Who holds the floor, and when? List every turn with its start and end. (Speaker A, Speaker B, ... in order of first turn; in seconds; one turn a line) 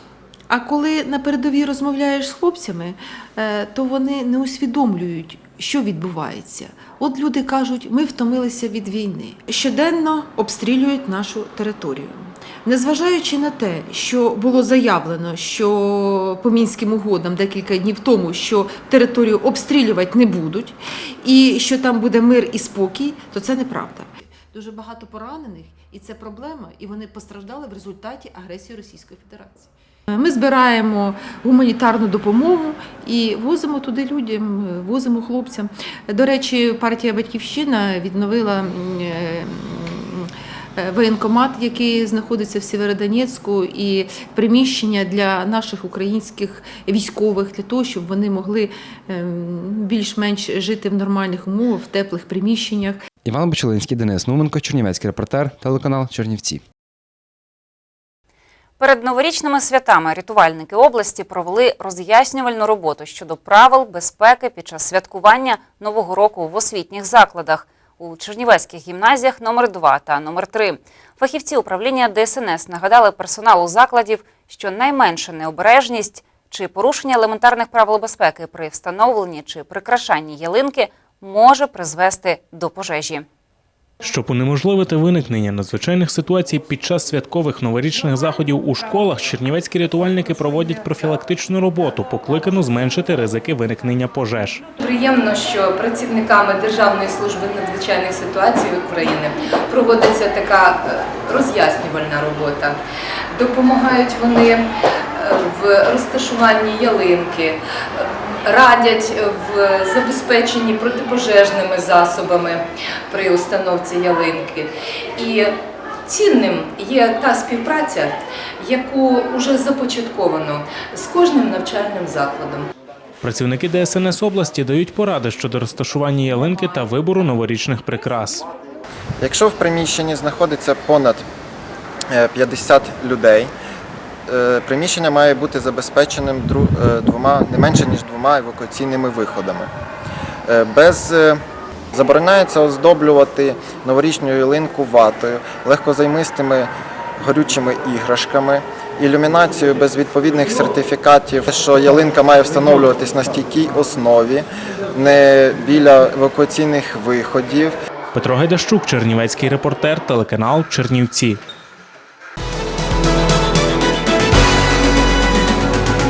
Speaker A: 0.5-53.0
Speaker B: 53.2-56.6
Speaker C: 58.8-83.2
Speaker D: 84.0-94.6
Speaker E: 94.8-102.8
Speaker E: 103.3-122.7
Speaker D: 123.2-128.4
Speaker F: 129.2-131.2
Speaker F: 132.1-133.5
Speaker F: 134.3-139.7
Speaker F: 140.5-141.4
Speaker F: 141.9-157.7
Speaker D: 158.1-161.4